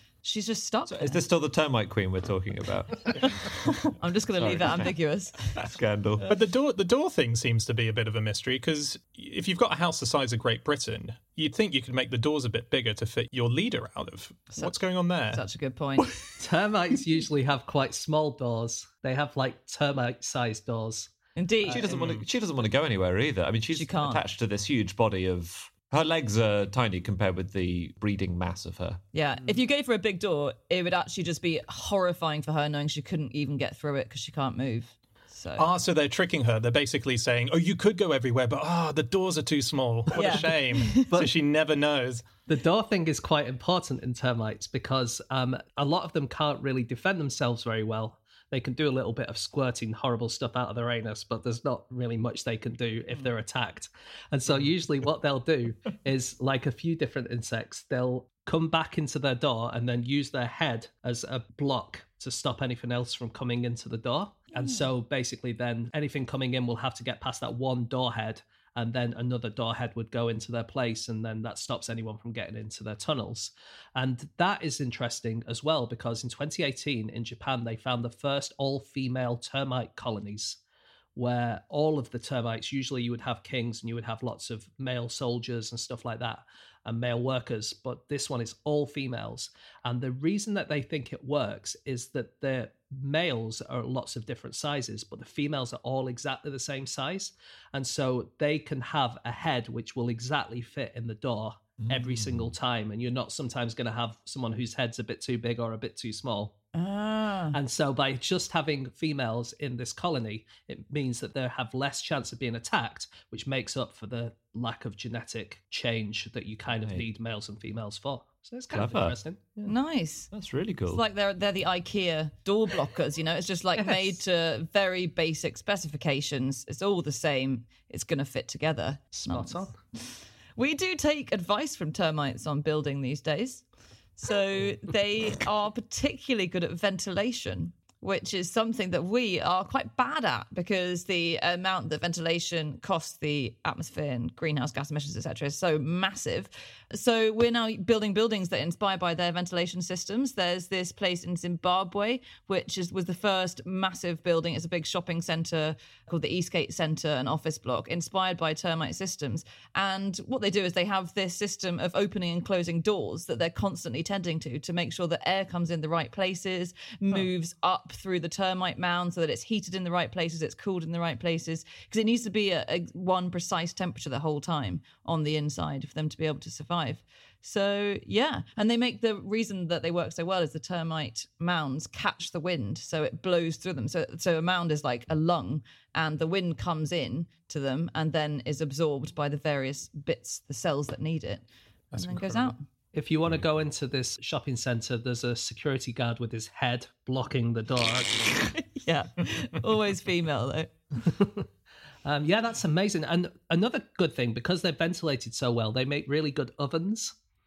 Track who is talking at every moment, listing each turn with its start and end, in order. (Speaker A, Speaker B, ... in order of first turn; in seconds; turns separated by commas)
Speaker A: 0.2-1.2, Speaker B: 0.9-3.5, Speaker A: 3.6-5.6, Speaker B: 4.3-4.9, Speaker B: 5.5-6.3, Speaker C: 6.3-15.4, Speaker A: 15.3-16.1, Speaker D: 16.4-21.1, Speaker A: 21.4-22.0, Speaker D: 21.7-22.1, Speaker B: 21.7-29.0, Speaker C: 21.9-22.2, Speaker A: 23.7-24.2, Speaker A: 29.1-35.7, Speaker C: 35.6-42.3, Speaker A: 40.1-41.1, Speaker D: 40.1-40.5, Speaker D: 42.5-80.6, Speaker D: 81.2-106.5, Speaker B: 101.8-102.5, Speaker A: 106.7-107.5, Speaker D: 107.5-119.7, Speaker B: 118.7-119.2, Speaker A: 119.6-120.3, Speaker B: 120.3-121.0, Speaker A: 120.9-133.6, Speaker D: 123.7-124.2, Speaker D: 129.1-129.8, Speaker A: 134.2-192.6, Speaker C: 191.9-192.5, Speaker D: 192.9-198.5, Speaker A: 198.6-200.7, Speaker D: 201.0-201.5, Speaker D: 202.0-207.1